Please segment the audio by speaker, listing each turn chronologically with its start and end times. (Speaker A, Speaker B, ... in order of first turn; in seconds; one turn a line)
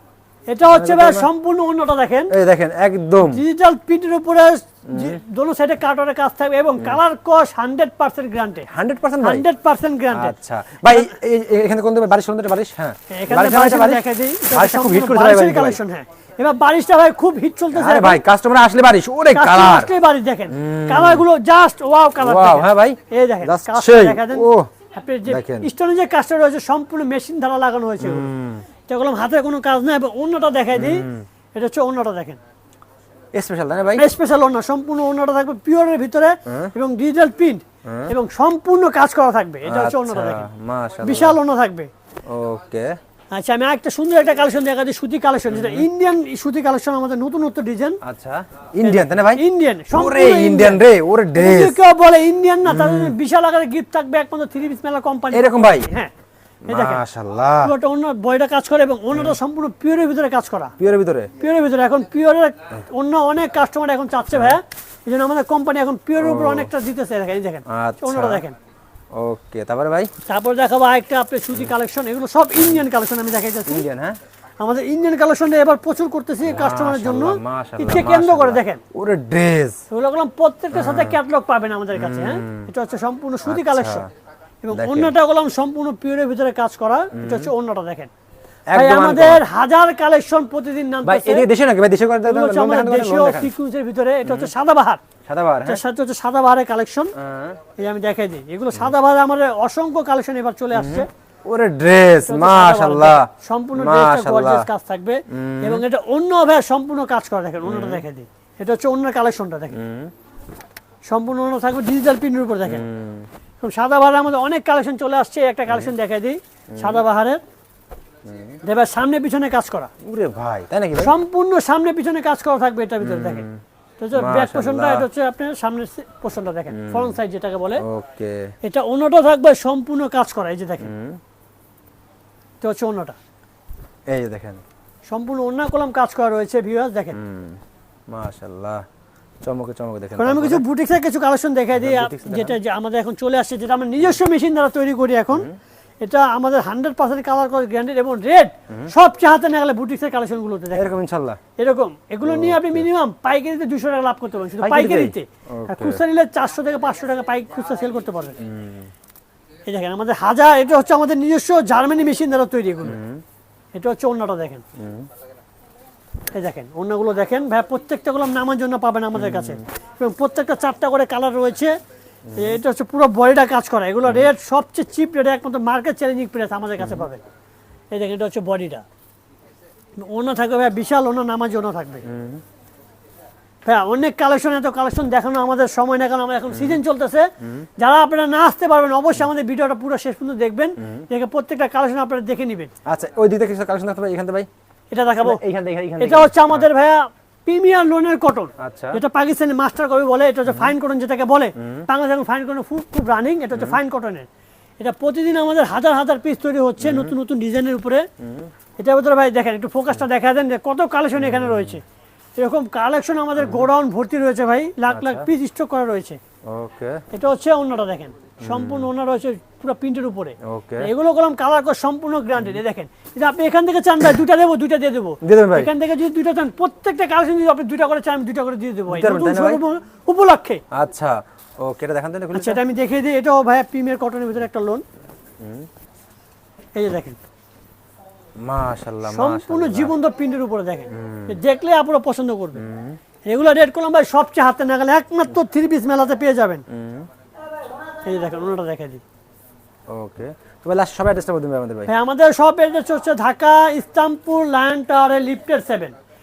Speaker A: 0.5-2.3
Speaker B: 0.6-1.3
Speaker B: 2.3-3.4
Speaker A: 3.2-8.7
Speaker B: 4.9-5.2
Speaker B: 8.7-9.4
Speaker A: 9.2-10.3
Speaker B: 10.1-15.8
Speaker A: 13.1-18.2
Speaker B: 17.7-19.9
Speaker A: 19.3-28.3
Speaker B: 20.5-21.2
Speaker B: 22.2-24.7
Speaker B: 25.3-25.7
Speaker B: 28.0-28.6
Speaker A: 28.9-32.4
Speaker B: 30.7-31.2
Speaker B: 33.3-34.1
Speaker A: 34.0-40.5
Speaker B: 36.5-36.7
Speaker B: 37.8-38.1
Speaker B: 39.6-41.4
Speaker A: 41.0-41.9
Speaker B: 42.3-42.9
Speaker A: 43.3-48.0
Speaker B: 45.5-45.9
Speaker B: 48.0-51.8
Speaker A: 48.8-50.8
Speaker A: 51.4-56.1
Speaker B: 52.7-53.1
Speaker B: 55.3-55.9
Speaker B: 56.7-57.7
Speaker A: 56.7-57.0
Speaker A: 57.6-60.7
Speaker B: 60.8-61.3
Speaker A: 61.4-68.5
Speaker B: 66.2-66.7
Speaker B: 67.7-68.4
Speaker B: 69.1-70.1
Speaker A: 70.2-73.8
Speaker B: 73.7-74.2
Speaker A: 74.6-78.8
Speaker B: 76.4-79.8
Speaker A: 79.9-84.1
Speaker B: 80.7-81.2
Speaker B: 81.9-82.7
Speaker B: 83.5-84.1
Speaker A: 84.6-88.1
Speaker B: 84.7-85.1
Speaker B: 87.1-87.5
Speaker B: 88.7-89.4
Speaker A: 88.7-91.5
Speaker B: 91.0-93.5
Speaker A: 92.3-95.0
Speaker B: 94.2-94.5
Speaker B: 95.3-95.8
Speaker A: 95.6-97.1
Speaker B: 97.2-97.6
Speaker A: 97.8-101.1
Speaker B: 100.7-104.7
Speaker A: 102.2-109.8
Speaker B: 105.3-105.8
Speaker B: 107.6-108.0
Speaker B: 109.7-110.1
Speaker A: 111.0-112.8
Speaker B: 112.6-113.3
Speaker A: 113.6-117.4
Speaker B: 116.7-117.0
Speaker B: 118.2-118.6
Speaker A: 118.6-119.9
Speaker B: 120.0-121.1
Speaker A: 121.0-123.4
Speaker B: 123.0-123.6
Speaker A: 124.0-127.8
Speaker B: 124.1-125.1
Speaker B: 126.7-127.2
Speaker B: 127.8-128.5
Speaker A: 128.6-130.9
Speaker B: 130.8-131.2
Speaker A: 132.6-133.2
Speaker B: 134.1-134.6
Speaker A: 135.1-137.2
Speaker B: 137.1-137.6
Speaker B: 138.1-138.8
Speaker B: 139.4-140.6
Speaker A: 140.2-145.5
Speaker B: 141.7-142.6
Speaker A: 146.0-150.9
Speaker B: 150.7-151.4
Speaker A: 151.6-158.4
Speaker B: 152.2-152.8
Speaker B: 154.6-156.0
Speaker B: 158.4-158.9
Speaker A: 159.7-163.0
Speaker B: 162.8-163.2
Speaker A: 163.7-164.6
Speaker B: 164.8-165.1
Speaker A: 166.3-171.7
Speaker B: 169.1-169.6
Speaker B: 172.3-172.6
Speaker A: 172.3-177.2
Speaker B: 176.8-177.0
Speaker A: 177.9-178.8
Speaker A: 180.0-182.0
Speaker B: 182.0-182.4
Speaker A: 183.6-192.7
Speaker B: 186.5-186.8
Speaker B: 192.8-194.5
Speaker A: 194.9-195.4
Speaker B: 195.2-196.7
Speaker A: 196.0-204.3
Speaker B: 198.6-199.0
Speaker B: 200.5-200.7
Speaker B: 201.6-201.8
Speaker B: 203.5-203.8
Speaker A: 204.8-208.1
Speaker B: 206.8-207.1
Speaker B: 208.2-208.5
Speaker A: 208.8-211.8
Speaker B: 211.2-211.8
Speaker A: 212.4-216.2
Speaker B: 213.4-213.7
Speaker B: 214.9-215.3
Speaker B: 216.5-217.0
Speaker A: 217.1-230.6
Speaker B: 218.4-218.9
Speaker B: 220.4-220.9
Speaker B: 225.2-225.7
Speaker B: 228.9-229.6
Speaker B: 230.7-232.6
Speaker A: 232.3-234.8
Speaker B: 235.4-235.7
Speaker A: 236.7-237.2
Speaker B: 238.4-239.9
Speaker A: 239.0-242.6
Speaker B: 240.9-241.4
Speaker B: 242.6-243.0
Speaker A: 243.2-246.6
Speaker B: 246.7-247.1
Speaker A: 248.0-249.0
Speaker B: 249.9-251.9
Speaker A: 251.9-255.9